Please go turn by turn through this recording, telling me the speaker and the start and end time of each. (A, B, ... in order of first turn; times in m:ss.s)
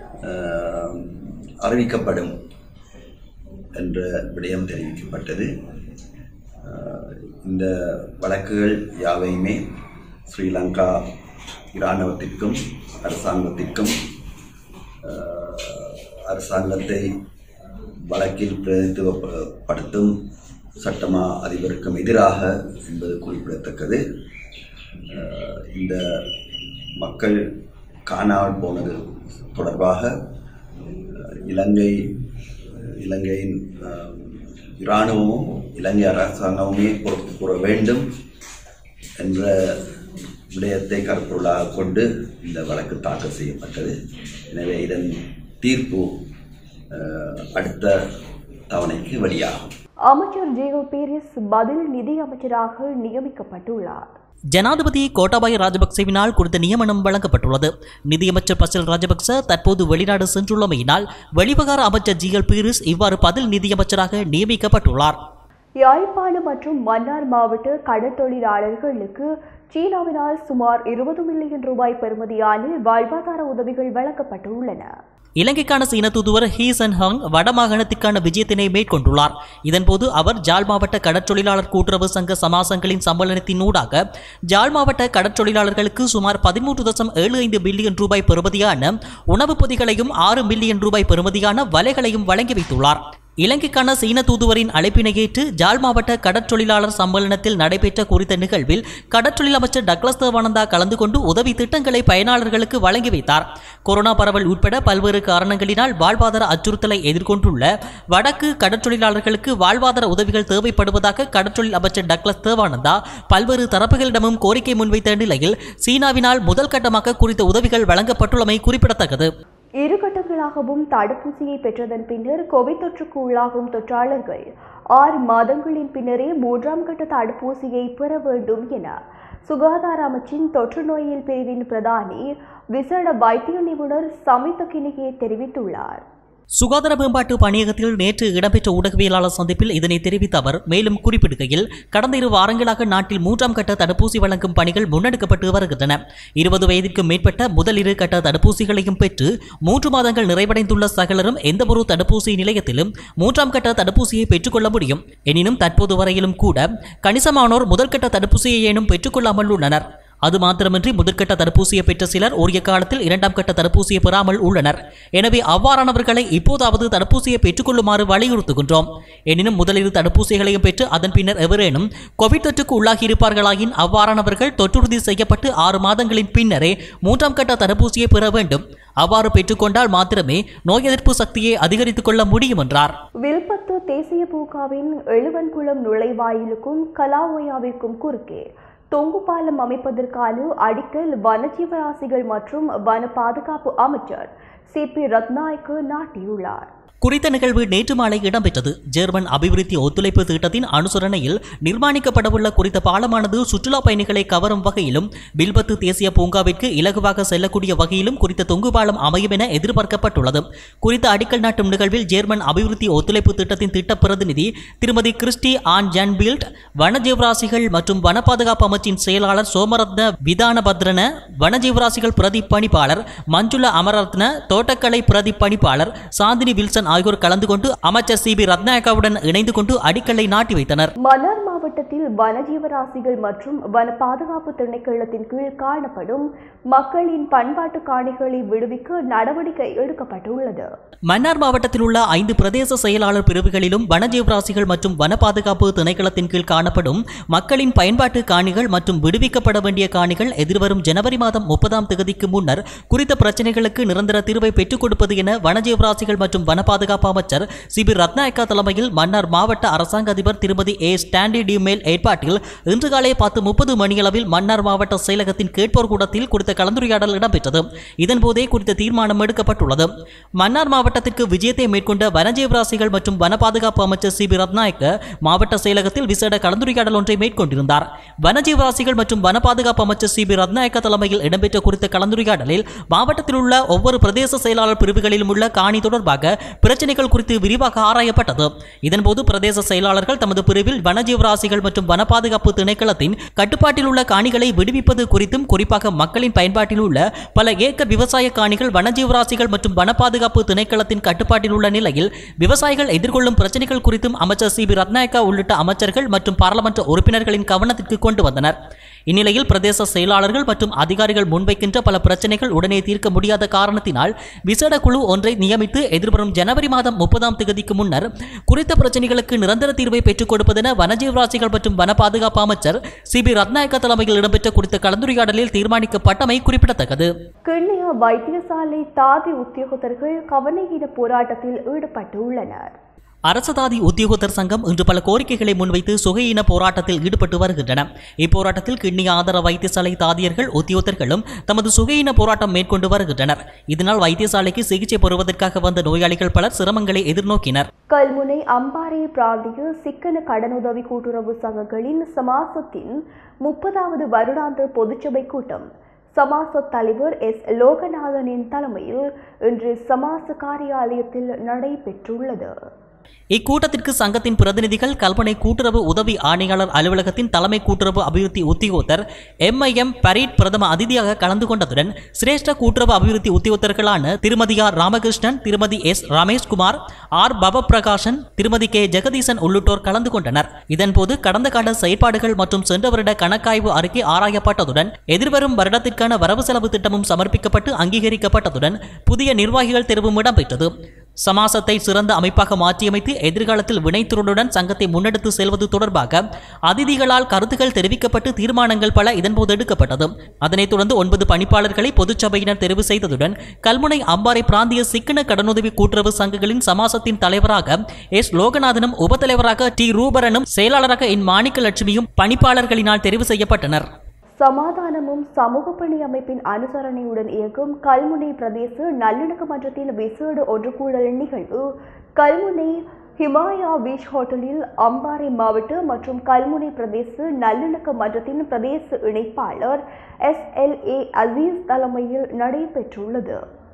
0:00.2-0:02.3 A
0:03.8-0:05.5 A
0:06.7-0:09.6 A
0:10.3-0:11.0 A
0:11.7-0:13.9 A
0:15.0-0:17.0 A
0:18.1-0:20.1 A
0:20.8-0:24.0 A
0:25.1-0:26.2 A
0:27.0-0:27.4 A
0:28.1-0:29.0 A
0:29.5-0:30.2 A
0:31.2-0:32.0 A
0:33.0-0:38.0 A
0:39.2-0:39.8 A
0:40.5-0:43.9 A
0:44.5-0:46.1 A
0:46.9-0:48.0 A
0:48.7-0:49.6 A
0:50.1-0:54.0 B
0:54.5-1:05.2 C
1:05.8-1:14.9 B
1:15.4-1:59.3 C
1:59.8-2:04.4 B
2:05.0-2:16.0 B
2:16.6-3:02.9 C
3:03.2-3:16.7 B
3:17.0-3:50.9 C
3:51.0-4:00.7 B
4:01.1-5:08.6 C
5:09.1-5:27.1 C
5:27.5-5:32.7 B
5:33.3-5:47.7 C
5:47.9-6:02.5 B
6:03.3-6:53.9 C
6:54.4-7:01.6 B
7:02.2-7:13.4 B